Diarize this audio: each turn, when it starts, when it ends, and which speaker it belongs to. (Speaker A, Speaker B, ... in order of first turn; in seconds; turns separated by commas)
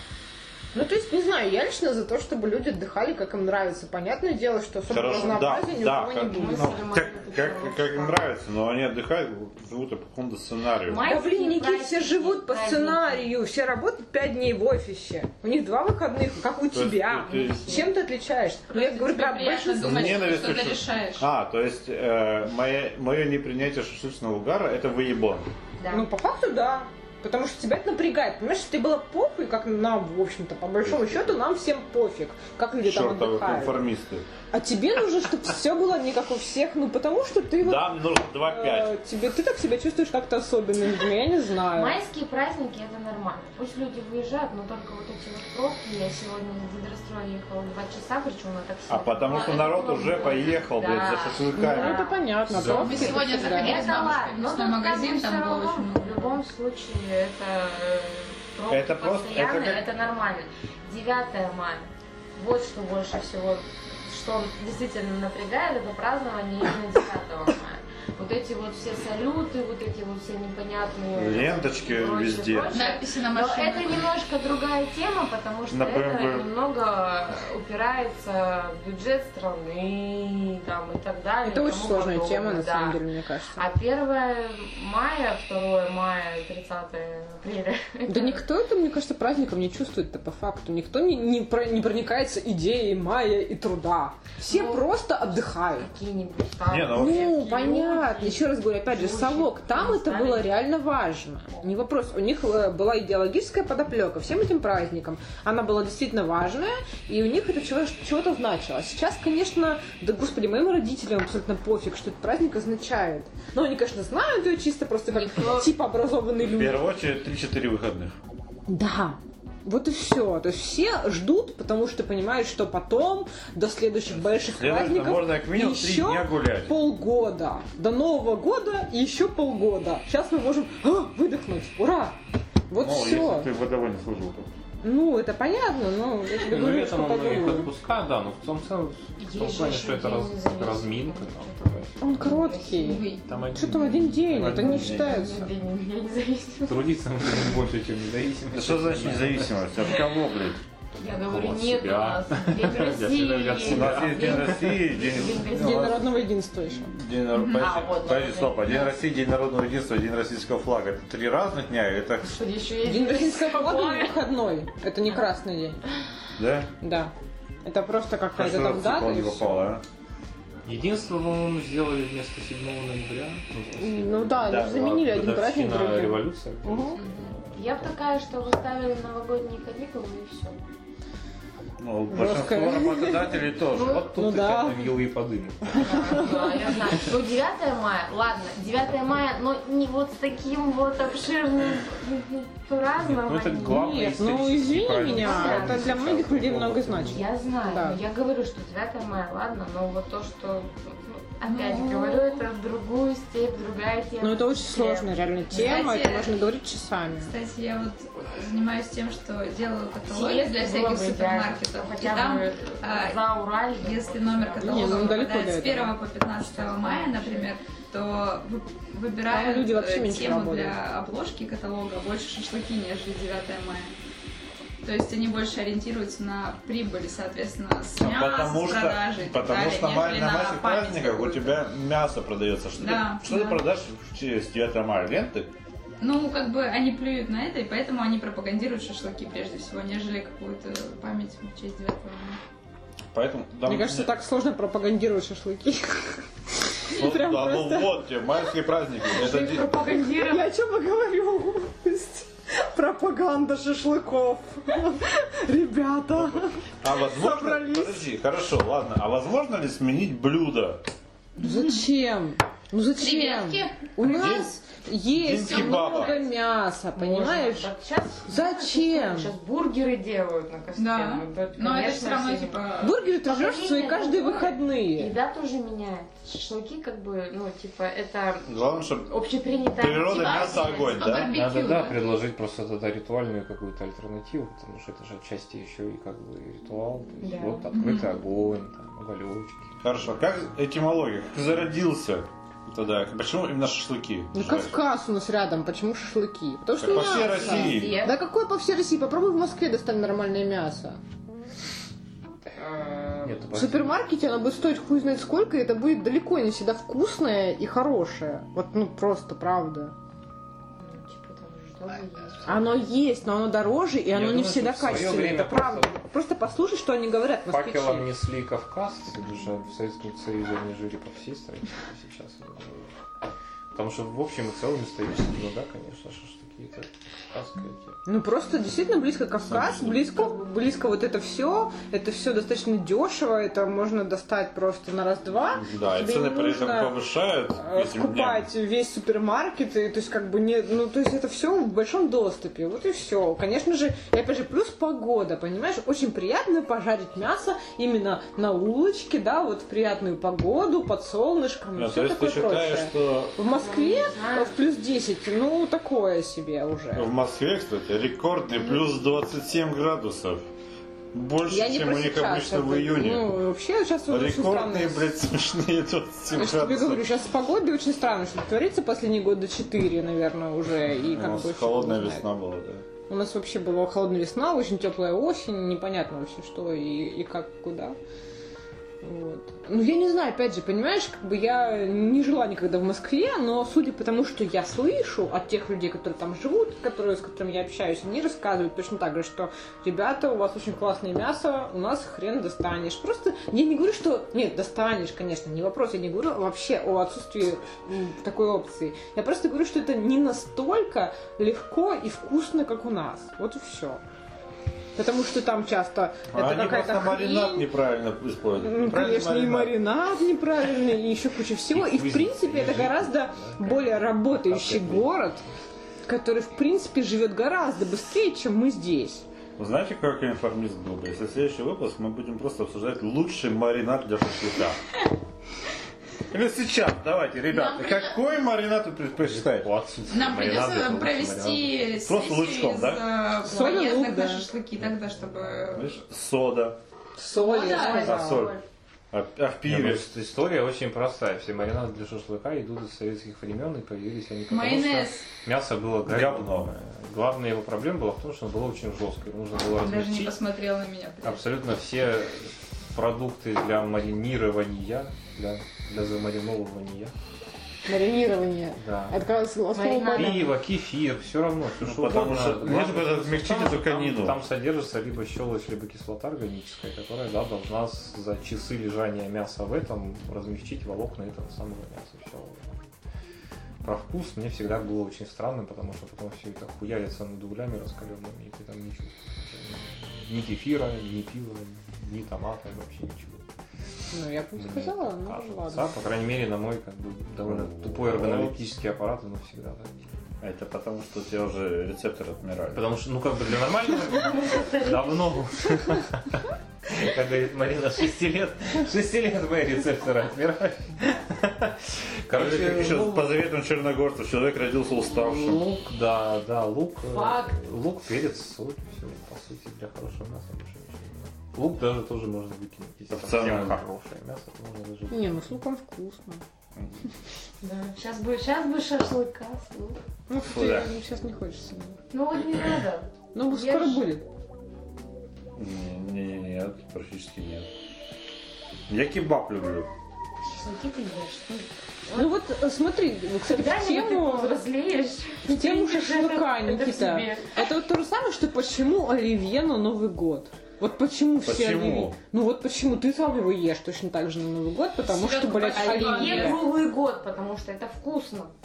Speaker A: 0.7-6.8, Speaker B: 4.9-11.1, Speaker C: 5.0-5.6, Speaker C: 6.2-8.2, Speaker C: 10.8-13.3, Speaker A: 11.0-20.4, Speaker B: 16.7-17.9, Speaker C: 17.3-17.9, Speaker D: 18.7-21.2, Speaker B: 19.8-25.5, Speaker C: 25.8-26.1, Speaker A: 25.9-33.8, Speaker B: 30.8-31.4, Speaker B: 32.8-34.3, Speaker A: 34.5-42.0, Speaker B: 37.6-39.0, Speaker C: 41.7-83.0, Speaker B: 48.9-52.1, Speaker A: 51.5-53.9, Speaker E: 52.5-53.2, Speaker D: 52.6-56.4, Speaker B: 58.7-59.8, Speaker B: 71.1-72.8, Speaker D: 72.7-74.1, Speaker B: 75.7-76.5, Speaker A: 81.4-83.6, Speaker C: 83.5-88.4, Speaker A: 88.1-95.9, Speaker C: 94.5-94.8, Speaker C: 95.7-100.5, Speaker B: 96.7-97.3, Speaker A: 96.9-116.8, Speaker C: 115.1-115.7, Speaker B: 116.4-118.2, Speaker A: 118.7-132.2, Speaker B: 124.5-126.8, Speaker A: 132.7-133.5, Speaker B: 132.8-134.5, Speaker A: 134.8-137.7, Speaker E: 136.4-142.0, Speaker C: 139.2-143.2, Speaker A: 142.0-145.5, Speaker D: 142.8-143.2, Speaker E: 143.2-145.2, Speaker B: 144.4-145.3, Speaker C: 144.4-146.9, Speaker E: 146.7-149.9, Speaker B: 148.5-150.6, Speaker C: 151.0-156.2, Speaker E: 151.1-154.7, Speaker B: 153.6-162.4, Speaker A: 155.4-156.9, Speaker D: 157.3-157.6, Speaker C: 157.5-159.0, Speaker C: 162.2-164.3, Speaker A: 162.8-165.8, Speaker B: 166.4-166.7, Speaker A: 166.8-167.1, Speaker A: 167.6-169.6, Speaker B: 168.3-169.8, Speaker E: 170.7-177.9, Speaker A: 173.8-177.0, Speaker B: 174.4-174.9, Speaker C: 177.0-180.6, Speaker B: 181.8-184.1, Speaker A: 182.1-183.3, Speaker E: 183.7-186.3, Speaker C: 183.7-184.0, Speaker A: 184.1-185.0, Speaker A: 185.7-186.5, Speaker C: 185.8-194.0, Speaker E: 193.0-197.3, Speaker A: 193.7-198.0, Speaker C: 194.9-196.1, Speaker C: 197.0-205.8, Speaker D: 201.4-202.4, Speaker A: 204.2-207.3, Speaker D: 205.5-206.3, Speaker D: 207.2-213.2, Speaker C: 210.1-215.3, Speaker D: 213.8-223.9, Speaker A: 214.6-215.9, Speaker C: 216.4-217.5, Speaker A: 219.3-220.8, Speaker D: 224.8-231.6, Speaker B: 228.0-235.5, Speaker D: 232.8-233.6, Speaker D: 236.0-242.4, Speaker B: 243.1-244.1, Speaker A: 243.7-248.0, Speaker B: 246.9-249.8, Speaker C: 249.1-250.5, Speaker A: 250.0-258.0, Speaker B: 256.1-260.8, Speaker D: 261.4-261.8, Speaker A: 261.4-267.7, Speaker D: 263.0-263.9, Speaker B: 264.0-264.5, Speaker B: 265.1-266.1, Speaker D: 265.4-266.2, Speaker C: 265.6-266.3, Speaker C: 266.9-272.7, Speaker A: 268.2-269.3, Speaker D: 270.8-273.0, Speaker A: 272.8-275.1, Speaker C: 273.2-278.5, Speaker B: 278.4-279.1, Speaker C: 279.0-281.2, Speaker B: 279.8-281.3, Speaker D: 280.0-282.0, Speaker E: 281.3-289.7, Speaker C: 287.2-287.7, Speaker D: 287.7-288.1, Speaker B: 289.8-294.8, Speaker A: 294.3-301.0, Speaker B: 296.8-298.0, Speaker C: 296.8-298.2, Speaker C: 302.6-303.4, Speaker E: 303.2-304.0, Speaker A: 303.5-309.9, Speaker C: 310.8-312.8, Speaker A: 312.4-318.1, Speaker E: 314.1-316.0, Speaker E: 317.5-322.9, Speaker E: 323.7-328.0, Speaker A: 328.1-337.0, Speaker B: 329.5-330.1, Speaker B: 335.5-338.4, Speaker A: 337.6-357.1, Speaker B: 351.7-353.4, Speaker C: 353.5-354.6, Speaker B: 356.9-360.4, Speaker B: 361.1-363.4, Speaker A: 361.5-365.1, Speaker B: 364.1-367.1, Speaker A: 366.3-372.2, Speaker B: 371.0-372.9, Speaker A: 373.1-377.9, Speaker A: 379.0-404.0, Speaker A: 404.9-407.7, Speaker B: 406.3-409.8, Speaker A: 408.6-415.4, Speaker E: 411.7-415.1, Speaker A: 416.1-419.2, Speaker B: 419.6-424.8, Speaker B: 426.3-429.7, Speaker D: 427.5-427.9, Speaker E: 429.3-431.8, Speaker D: 430.1-435.9, Speaker B: 432.0-433.0, Speaker A: 433.4-434.4, Speaker B: 435.7-436.8, Speaker A: 437.1-438.5, Speaker D: 437.4-438.2, Speaker C: 437.4-438.6, Speaker B: 437.9-438.6, Speaker B: 439.1-440.1, Speaker E: 439.6-450.3, Speaker D: 444.5-445.2, Speaker B: 446.1-446.7, Speaker D: 449.7-451.4, Speaker E: 451.2-457.1, Speaker A: 457.9-460.5, Speaker E: 458.8-459.2, Speaker C: 459.7-460.5, Speaker E: 460.1-472.8, Speaker B: 461.8-464.4, Speaker E: 473.8-483.4, Speaker A: 484.1-485.9, Speaker E: 484.6-490.0, Speaker B: 487.4-488.7, Speaker B: 490.4-492.8, Speaker E: 492.7-503.3, Speaker C: 494.1-495.4, Speaker B: 502.3-505.6, Speaker E: 505.1-515.5, Speaker C: 507.1-507.6, Speaker B: 513.1-513.8, Speaker A: 515.1-516.4, Speaker C: 517.6-520.0, Speaker A: 520.3-522.0, Speaker B: 520.4-520.9, Speaker C: 522.1-524.1, Speaker A: 523.3-524.2, Speaker B: 525.6-527.7, Speaker B: 528.9-529.9, Speaker C: 530.5-532.3, Speaker A: 532.1-534.6, Speaker C: 533.4-537.6, Speaker A: 535.5-546.7, Speaker B: 541.4-542.2, Speaker D: 545.0-546.7, Speaker C: 545.7-548.5